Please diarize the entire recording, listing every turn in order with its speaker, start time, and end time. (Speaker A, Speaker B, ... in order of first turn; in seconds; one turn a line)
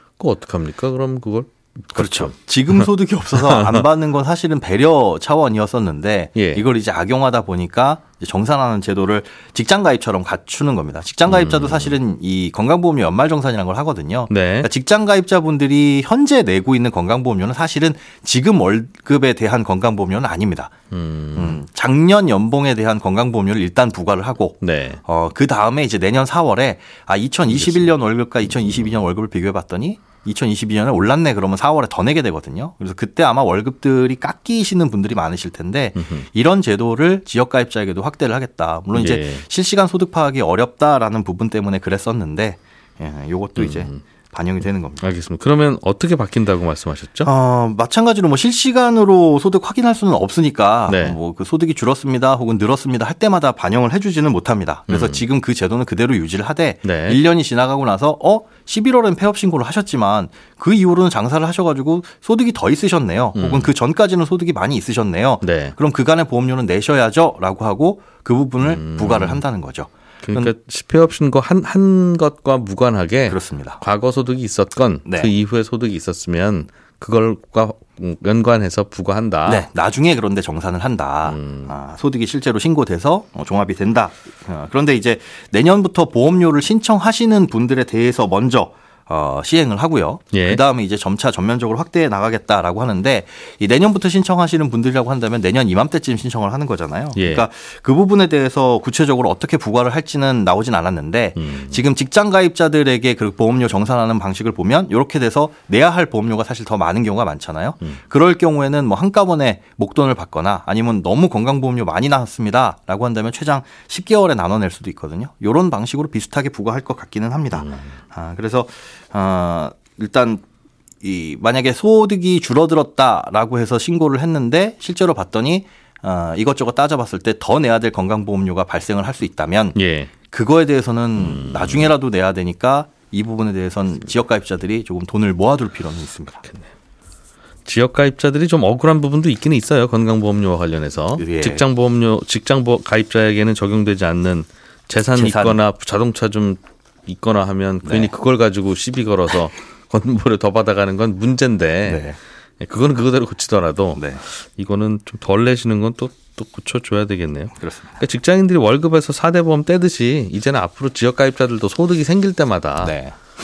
Speaker A: 0.2-3.9
Speaker B: 1.9-20.7
Speaker A: 6.3-6.6
Speaker A: 11.2-11.9
Speaker A: 14.3-14.7
Speaker A: 20.9-21.6
Speaker B: 21.3-45.0
Speaker A: 24.6-25.0
Speaker A: 27.5-27.9
Speaker A: 28.4-29.0
Speaker A: 36.0-36.2
Speaker A: 38.9-39.4
Speaker A: 43.6-44.0
Speaker A: 45.0-47.3
Speaker B: 47.2-70.5
Speaker A: 50.9-51.2
Speaker A: 54.9-55.2
Speaker A: 56.8-57.2
Speaker A: 63.3-63.7
Speaker A: 65.4-65.7
Speaker A: 68.6-69.4
Speaker A: 70.2-79.7
Speaker B: 73.3-73.8
Speaker B: 75.0-75.3
Speaker B: 79.5-120.4
Speaker A: 81.2-81.7
Speaker A: 90.3-90.6
Speaker A: 97.1-97.5
Speaker A: 101.3-101.8
Speaker A: 117.5-117.9
Speaker B: 121.0-129.8
Speaker A: 129.7-130.1
Speaker B: 130.3-136.4
Speaker A: 131.2-131.9
Speaker A: 137.7-152.1
Speaker B: 141.2-141.6
Speaker B: 145.1-145.6
Speaker B: 147.8-148.1
Speaker B: 151.8-152.2
Speaker A: 152.6-162.9
Speaker B: 157.6-158.0
Speaker B: 162.8-163.1